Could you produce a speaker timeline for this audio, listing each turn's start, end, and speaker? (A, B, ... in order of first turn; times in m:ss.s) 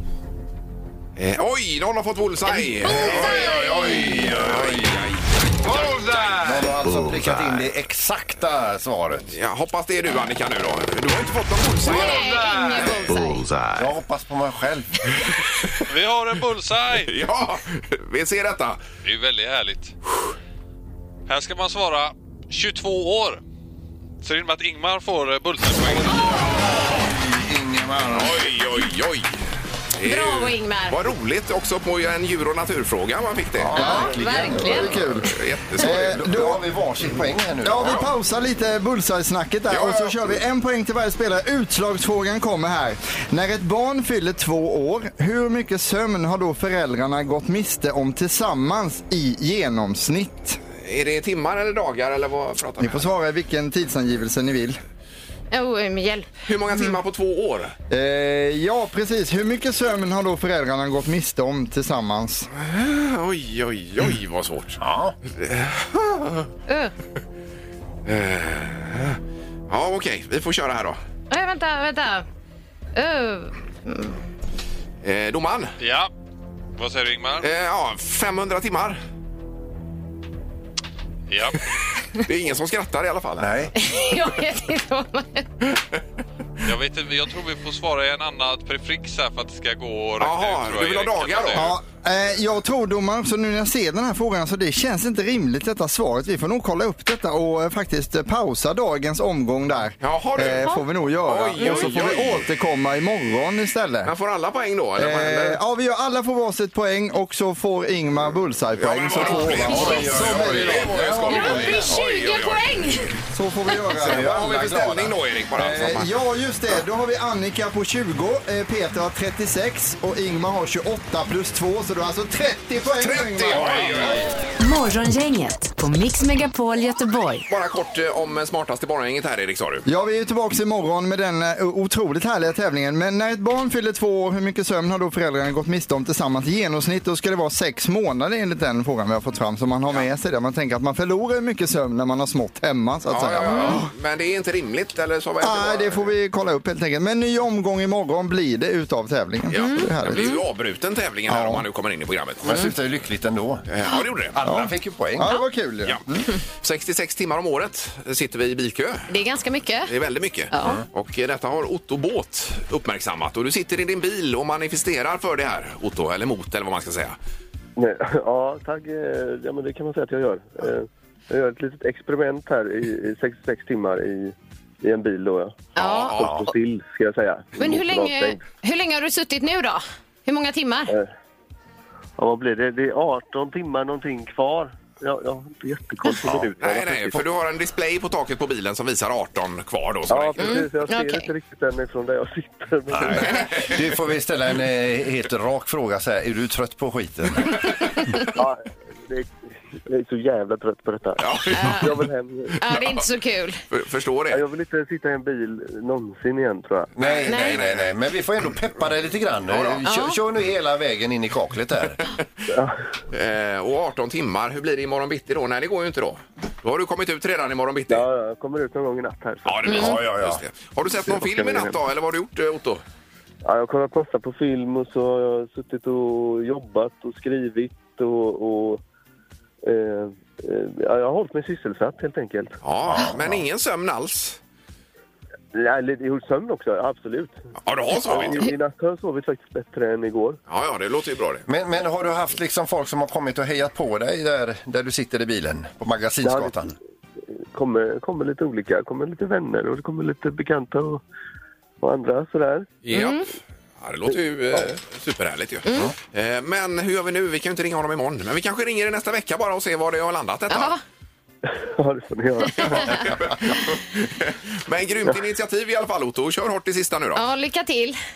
0:01.2-0:06.5 A
0:02.5-0:04.2 B
0:02.8-0:05.1 C
0:05.8-0:06.2 D
0:06.4-0:09.3 C
0:09.3-0:12.4 A
0:11.8-0:13.4 B
0:13.7-0:14.9 C
0:15.9-0:17.1 D
0:17.1-0:18.8 A
0:19.0-0:19.9 D
0:21.3-0:23.4 D
0:24.2-0:26.5 D
0:26.9-0:28.4 C
0:28.1-0:29.4 A
0:30.0-0:33.8 A
0:30.0-0:31.0 B
0:33.6-0:35.1 C
0:33.7-0:36.6 E
0:33.8-0:35.0 B
0:35.2-0:36.2 A
0:35.8-0:38.0 C
0:37.6-0:50.6 E
0:37.8-0:38.1 A
0:39.7-0:40.3 A
0:50.8-0:53.1 A
0:52.8-0:54.8 E
0:55.5-0:56.3 B
0:56.5-0:57.7 A
0:57.9-1:02.5 E
1:02.6-1:04.8 A
1:04.8-1:05.2 C
1:05.3-1:06.5 A
1:08.1-1:11.0 A
1:11.3-1:12.2 B
1:13.0-1:14.2 B
1:15.0-1:15.8 A
1:15.8-1:16.1 D
1:16.8-1:17.5 D
1:17.4-1:19.0 A
1:21.3-1:21.6 D
1:22.3-1:23.7 A
1:23.4-1:23.7 C
1:23.8-1:25.5 B
1:26.6-1:31.7 D
1:30.2-1:31.7 A
1:31.6-1:44.1 E
1:40.0-1:42.4 A
1:41.6-1:41.9 B
1:44.0-1:45.6 A
1:45.0-1:51.1 E
1:48.8-1:52.6 A
1:49.2-1:52.0 C
1:51.3-1:53.2 B
1:53.3-1:54.8 E
1:53.9-1:55.2 C
1:54.0-1:56.1 A
1:55.6-2:04.2 E
2:03.0-2:04.3 A
2:03.5-2:04.1 C
2:04.6-2:07.4 F
2:07.5-2:09.8 A
2:09.9-2:23.9 E
2:23.1-2:26.2 A
2:23.5-2:23.8 B
2:25.4-2:30.3 E
2:29.5-2:32.6 A
2:29.5-2:30.4 B
2:31.3-2:31.6 E
2:32.4-2:33.7 C
2:33.7-2:34.4 A
2:34.3-2:35.3 C
2:34.4-2:36.3 E
2:36.6-2:39.1 A
2:39.1-2:39.9 B
2:39.9-2:47.2 A
2:40.5-2:40.8 B
2:47.8-2:55.6 G
2:55.8-2:56.5 A
2:55.8-2:56.5 B
2:56.2-2:58.4 G
2:57.6-3:00.9 B
3:02.2-3:07.3 G
3:06.6-3:10.7 A
3:10.1-3:13.5 G
3:10.4-3:11.3 B
3:12.9-3:17.6 C
3:13.2-3:13.7 A
3:18.4-3:19.3 G
3:19.9-3:22.6 G
3:21.2-3:22.0 A
3:21.5-3:21.9 B
3:22.6-3:23.6 B
3:23.7-3:24.4 A
3:24.3-3:26.9 G
3:27.0-3:32.0 C
3:27.0-3:28.0 A
3:27.3-3:27.6 B
3:29.5-3:29.8 A
3:29.8-3:30.2 B
3:33.1-3:38.1 A
3:37.9-3:39.8 G
3:39.5-3:42.8 A
3:39.7-3:40.4 C
3:41.1-3:41.8 G
3:43.4-3:48.8 G
3:49.6-3:52.6 G
3:52.6-3:54.4 A
3:52.8-3:53.4 C
3:55.5-3:57.4 G
3:57.6-3:58.5 A
3:57.9-4:00.4 G
4:00.5-4:01.4 A
4:01.5-4:06.8 C
4:06.2-4:06.5 G
4:07.4-4:11.0 G
4:11.8-4:12.7 G
4:12.8-4:13.2 A
4:12.9-4:13.2 B
4:13.8-4:20.8 A
4:15.7-4:15.9 B
4:20.5-4:20.8 B
4:21.4-4:22.9 G
4:22.6-4:27.2 A
4:27.2-4:28.0 B